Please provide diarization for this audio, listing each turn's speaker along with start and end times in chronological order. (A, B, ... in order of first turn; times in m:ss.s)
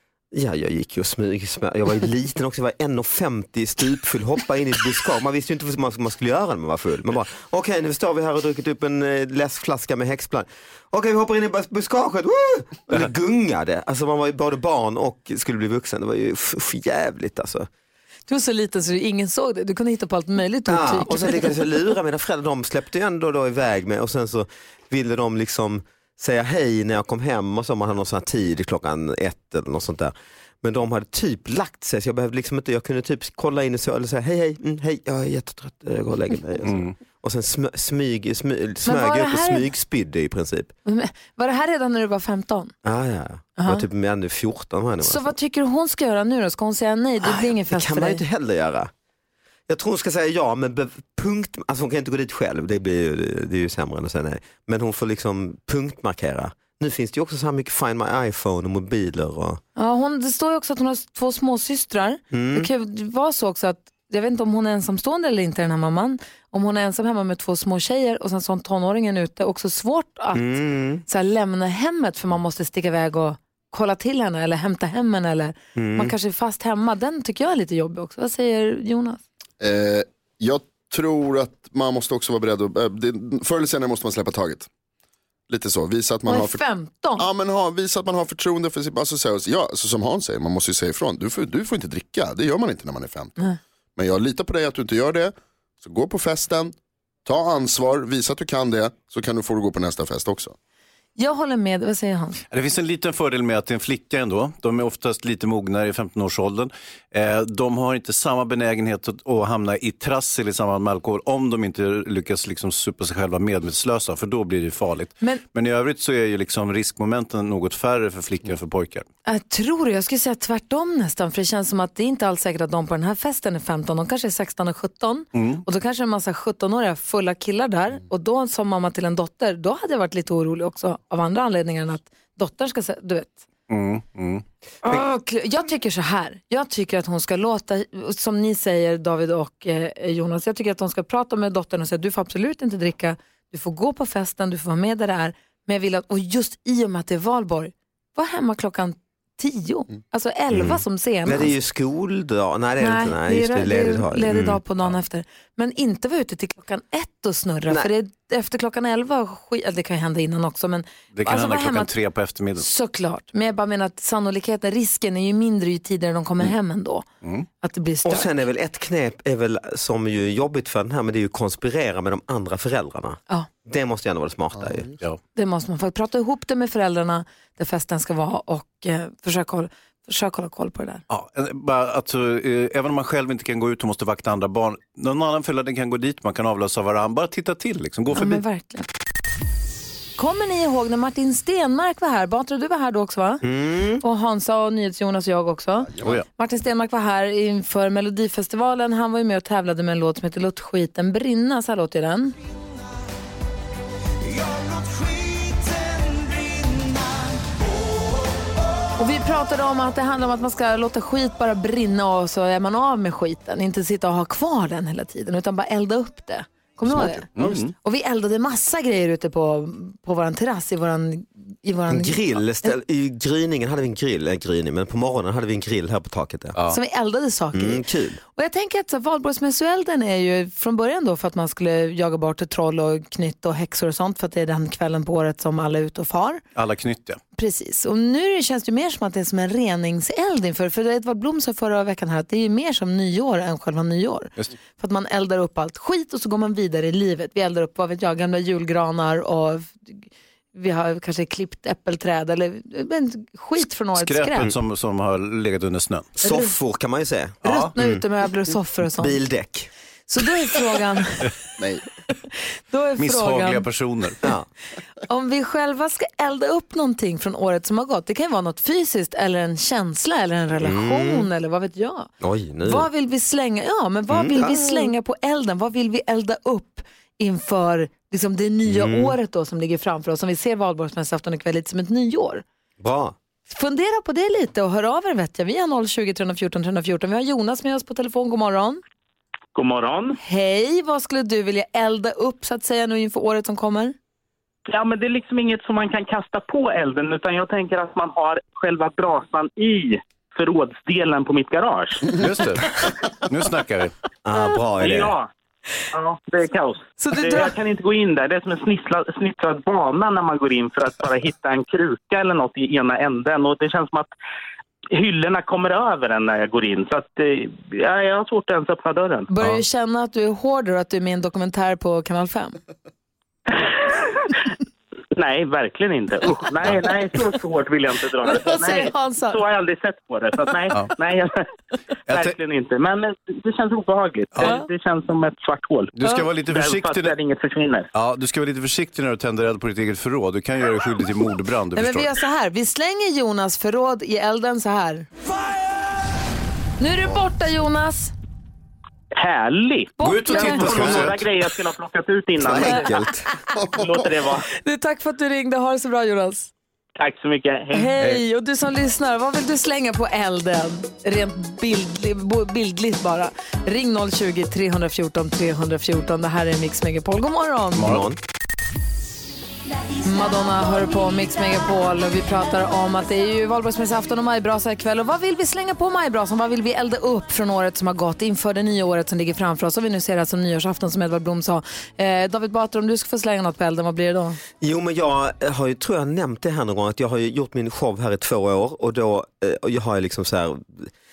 0:00.3-0:17.7 A
0:18.3-0:21.6 B
0:20.7-0:40.7 A
0:36.7-0:36.9 C
0:38.8-0:39.7 B
0:40.9-0:42.7 B
0:42.8-0:45.3 A
0:43.6-0:43.9 B
0:45.0-0:48.2 B
0:47.2-0:48.9 A
0:49.7-0:59.6 A
0:59.8-1:19.2 B
1:02.3-1:02.7 A
1:10.3-1:11.0 A
1:15.8-1:16.1 A
1:19.6-1:24.7 D
1:25.5-1:26.6 D
1:26.3-1:27.3 B
1:27.2-1:33.3 D
1:34.0-1:36.7 D
1:37.2-1:40.5 D
1:41.2-1:42.4 B
1:42.5-1:59.1 C
1:59.3-2:13.4 B
2:05.4-2:05.6 C
2:13.7-2:14.4 C
2:14.8-2:31.5 B
2:30.5-2:34.6 A
2:32.8-2:41.9 B
2:41.2-2:42.7 C
2:42.6-2:47.0 B
2:47.6-2:48.4 B
2:48.0-2:54.9 A
2:55.4-3:01.0 B
3:01.1-3:08.4 C
3:08.1-3:08.9 B
3:10.2-3:13.4 B
3:13.4-3:14.0 A
3:14.0-3:22.4 B
3:16.0-3:16.2 D
3:29.0-3:42.4 B
3:37.4-3:37.7 C
3:41.9-3:46.6 A
3:46.7-3:56.4 B
3:47.5-3:48.2 A
3:56.6-3:57.2 C
3:57.4-4:14.5 B
4:13.9-4:16.2 C
4:16.2-4:18.0 A
4:16.2-4:16.5 B
4:17.4-4:17.7 C
4:17.4-4:19.2 B
4:19.0-4:19.7 A
4:20.1-4:21.4 B
4:21.6-4:21.8 D
4:22.7-4:23.7 B
4:23.0-4:24.2 C
4:25.1-4:32.1 B
4:30.6-4:31.3 A
4:32.2-4:32.9 A
4:32.6-4:42.4 B
4:34.1-4:34.9 A
4:38.7-4:39.2 A
4:42.8-4:43.2 A
4:43.5-4:48.8 B
4:49.6-4:50.2 E
4:50.2-4:54.0 B
4:54.7-5:02.2 E
5:02.2-5:03.9 C
5:04.2-5:05.2 A
5:04.8-5:05.3 E
5:05.9-5:14.1 E
5:07.0-5:07.6 B
5:14.9-5:19.3 E
5:19.3-5:22.6 B
5:25.2-5:31.4 E
5:28.2-5:29.4 B
5:32.1-5:32.4 C
5:32.1-5:37.9 E
5:34.4-5:34.7 B
5:35.9-5:37.2 C
5:36.0-5:36.3 B
5:37.9-5:42.1 C
5:41.7-5:45.1 B
5:46.8-5:48.1 B
5:49.2-5:53.1 E
5:50.0-5:50.9 B
5:50.0-5:51.3 C
5:50.7-5:51.1 A
5:52.4-5:53.3 A
5:52.6-5:53.0 B
5:53.7-5:54.5 E
5:54.6-5:56.5 B
5:57.0-5:58.0 E
5:57.7-6:07.9 B
6:07.8-6:08.1 C
6:07.8-6:08.2 A
6:10.0-6:24.4 B
6:24.6-6:30.9 A